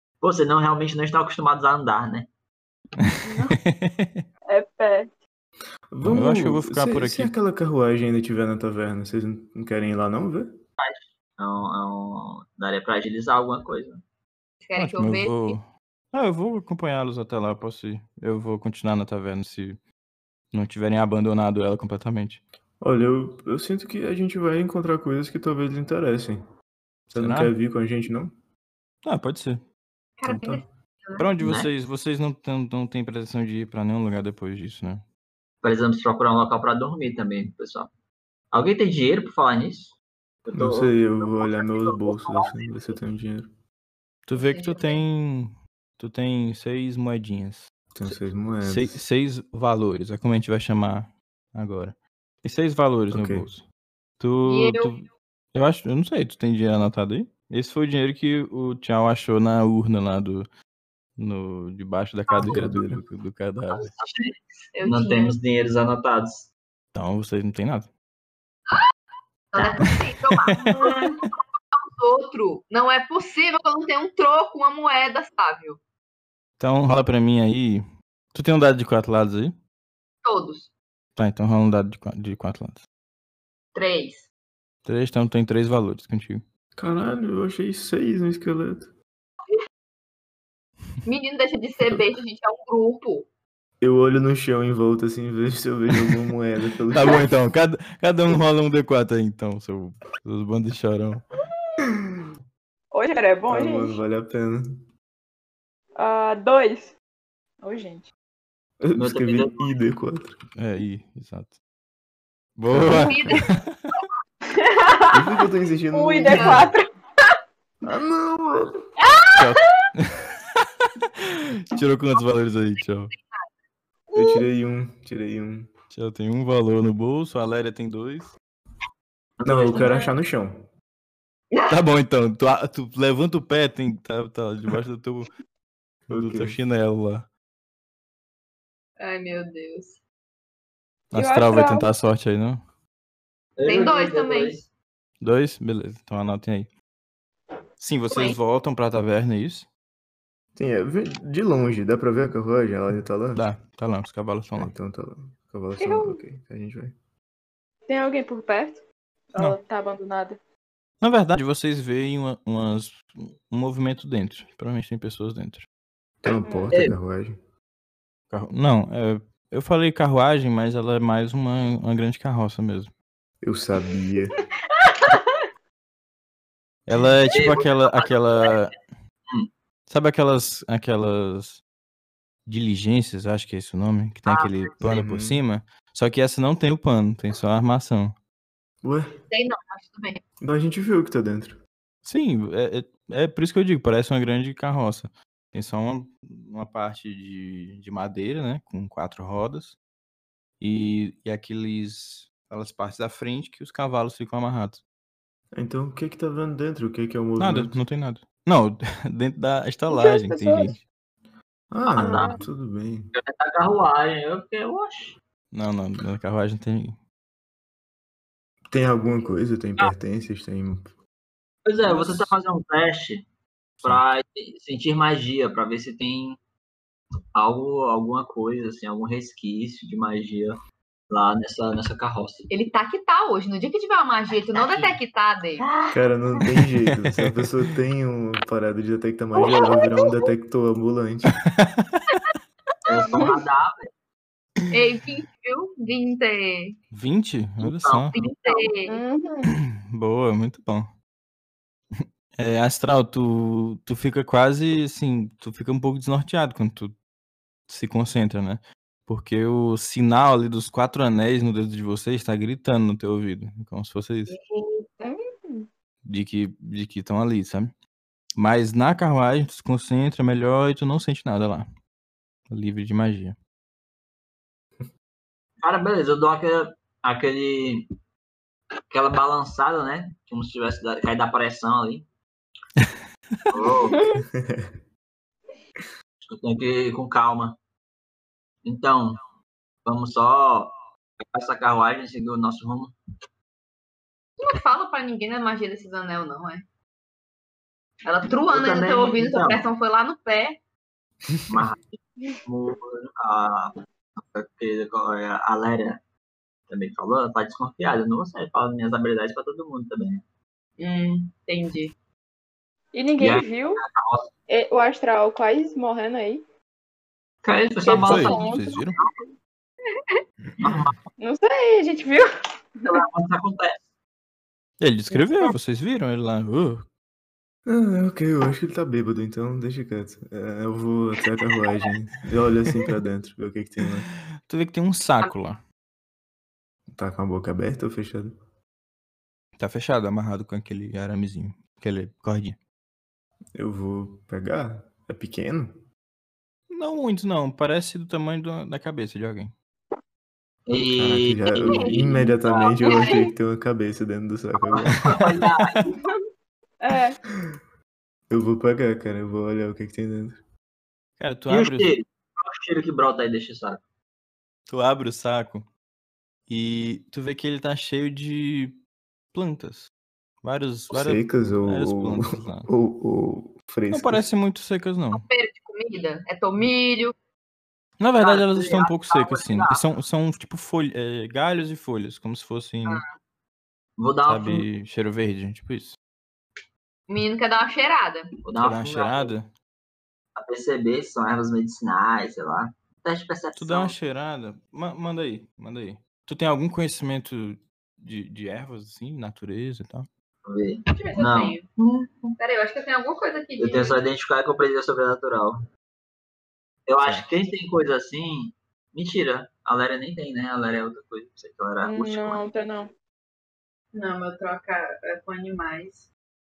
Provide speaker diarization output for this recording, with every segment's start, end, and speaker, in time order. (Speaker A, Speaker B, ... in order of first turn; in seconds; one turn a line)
Speaker A: 0.2-2.3
Speaker B: 3.0-4.3
Speaker C: 3.2-3.6
Speaker C: 4.5-5.2
Speaker D: 5.9-10.5
Speaker B: 6.0-7.3
Speaker A: 10.8-14.0
Speaker E: 14.6-15.6
Speaker B: 14.8-19.8
Speaker B: 20.5-22.4
Speaker D: 22.8-26.4
Speaker B: 27.1-27.5
Speaker D: 27.1-28.3
Speaker B: 29.0-29.6
Speaker E: 30.2-31.3
Speaker D: 30.2-30.6
Speaker B: 31.2-35.0
Speaker A: 31.4-31.7
Speaker A: 35.6-37.9
Speaker A: 38.5-42.9
Speaker D: 40.5-43.5
Speaker B: 44.2-53.6
Speaker E: 44.3-45.0
Speaker D: 47.9-49.0
Speaker D: 53.1-53.5
Speaker B: 54.2-60.5
Speaker E: 54.4-55.0
Speaker B: 61.2-63.9
Speaker E: 62.3-62.6
Speaker D: 62.4-63.0
Speaker A: 63.7-66.5
Speaker E: 64.7-65.3
Speaker B: 66.9-67.9
Speaker E: 69.5-75.8
Speaker A: 69.5-69.8
Speaker B: 69.8-71.0
Speaker B: 76.6-79.5
Speaker E: 80.2-80.7
Speaker B: 81.2-82.8
Speaker E: 83.7-84.3
Speaker B: 84.8-86.4
Speaker D: 86.8-88.9
Speaker E: 91.0-93.3
Speaker D: 93.8-97.3
Speaker B: 96.9-101.2
Speaker C: 102.9-104.0
Speaker D: 103.5-104.8
Speaker C: 106.0-107.0
Speaker C: 107.6-108.1
Speaker D: 108.8-110.4
Speaker A: 109.0-109.7
Speaker B: 110.6-111.6
Speaker B: 112.6-113.9
Speaker E: 112.8-113.5
Speaker C: 114.6-115.2
Speaker D: 115.1-116.7
Speaker C: 115.9-116.8
Speaker E: 116.2-116.7
Speaker D: 117.8-118.7
Speaker C: 119.2-119.4
Speaker B: 119.3-123.1
Speaker E: 123.1-123.4
Speaker C: 124.1-124.4
Speaker D: 124.1-125.7
Speaker B: 125.9-128.3
Speaker A: 129.4-130.0
Speaker D: 129.4-130.7
Speaker C: 129.7-130.1
Speaker E: 131.5-131.8
Speaker B: 131.7-135.3
Speaker D: 136.1-136.6
Speaker B: 136.1-137.3
Speaker E: 139.0-140.0
Speaker C: 141.1-141.9
Speaker B: 141.1-142.6
Speaker A: 143.6-144.7
Speaker E: 143.6-144.6
Speaker B: 145.2-146.7
Speaker B: 147.8-149.7
Speaker E: 148.1-148.4
Speaker D: 150.6-153.4
Speaker B: 153.3-154.7
Speaker D: 154.5-156.9
Speaker C: 155.8-156.2
Speaker C: 157.9-160.4
Speaker B: 161.0-165.7
Speaker D: 166.2-167.4
Speaker C: 166.4-166.7
Speaker B: 168.3-172.9
Speaker D: 173.4-174.4
Speaker C: 174.9-175.2
Speaker B: 176.8-178.8
Speaker A: 177.3-178.7
Speaker B: 179.9-181.6
Speaker B: 182.4-188.1
Speaker A: 184.3-184.7
Speaker D: 184.8-185.4
Speaker D: 188.8-189.1
Speaker E: 189.3-190.2
Speaker D: 190.4-191.6
Speaker B: 192.0-199.8
Speaker B: 200.6-204.8
Speaker D: 205.5-207.8
Speaker B: 207.4-210.8
Speaker C: 209.9-210.8
Speaker D: 211.7-213.1
Speaker A: 211.9-212.4
Speaker C: 212.0-212.4
Speaker A: 213.1-215.2
Speaker B: 215.5-217.0
Speaker D: 218.7-220.9
Speaker A: 221.6-223.2
Speaker D: 221.9-222.3
Speaker A: 223.8-226.4
Speaker A: 227.3-230.6
Speaker A: 231.1-232.5
Speaker E: 232.5-235.7
Speaker A: 234.5-235.0
Speaker A: 235.7-235.9
Speaker D: 235.9-241.4
Speaker B: 237.1-237.4
Speaker E: 239.5-239.8
Speaker C: 239.5-239.8
Speaker B: 241.5-242.2
Speaker A: 242.8-243.9
Speaker E: 244.7-246.8
Speaker B: 246.9-248.1
Speaker A: 247.6-248.3
Speaker E: 248.1-249.0
Speaker C: 248.5-249.5
Speaker B: 249.5-250.9
Speaker B: 252.0-256.9
Speaker B: 257.7-264.3
Speaker E: 264.3-265.1
Speaker C: 265.0-265.7
Speaker B: 266.0-267.7
Speaker B: 268.4-271.7
Speaker B: 272.5-273.4
Speaker A: 275.6-277.9
Speaker A: 278.9-282.0
Speaker A: 283.5-284.0
Speaker C: 283.8-284.2
Speaker D: 284.3-284.7
Speaker A: 286.2-287.6
Speaker A: 288.6-289.2
Speaker A: 289.8-292.9
Speaker E: 294.4-296.6
Speaker E: 298.0-300.6
Speaker A: 298.2-299.6
Speaker D: 301.3-301.6
Speaker A: 301.5-301.8
Speaker A: 302.4-306.0
Speaker A: 306.7-310.2
Speaker E: 310.8-311.9
Speaker C: 312.9-313.8
Speaker A: 313.2-314.3
Speaker C: 314.5-316.4
Speaker A: 317.4-318.6
Speaker C: 317.8-318.8
Speaker B: 318.0-319.0
Speaker A: 320.6-320.9
Speaker C: 321.2-323.0
Speaker A: 322.9-323.8
Speaker B: 324.8-326.9
Speaker D: 327.6-334.1
Speaker B: 334.4-335.6
Speaker D: 336.9-338.3
Speaker B: 339.6-342.6
Speaker D: 343.6-345.8
Speaker B: 346.7-349.5
Speaker A: 350.7-353.1
Speaker D: 350.9-355.2
Speaker E: 351.6-352.0
Speaker E: 352.8-353.3
Speaker A: 354.6-355.9
Speaker B: 355.1-355.8
Speaker C: 356.8-357.2
Speaker D: 358.3-360.4
Speaker B: 361.2-361.9
Speaker A: 361.5-363.8
Speaker B: 364.7-365.7
Speaker B: 366.5-368.8
Speaker B: 369.3-369.9
Speaker B: 370.4-372.7
Speaker D: 370.9-374.3
Speaker B: 373.9-375.2
Speaker E: 375.1-377.1
Speaker B: 378.0-383.0
Speaker A: 378.2-379.9
Speaker E: 382.8-383.1
Speaker A: 384.0-384.6
Speaker B: 384.2-386.0
Speaker E: 387.1-388.3
Speaker A: 388.4-389.3
Speaker B: 388.6-389.5
Speaker A: 390.4-393.9
Speaker B: 393.6-400.1
Speaker A: 400.4-402.3
Speaker E: 400.9-401.6
Speaker E: 402.4-404.0
Speaker A: 403.6-405.6
Speaker A: 406.9-412.4
Speaker C: 411.8-412.9
Speaker E: 413.9-416.1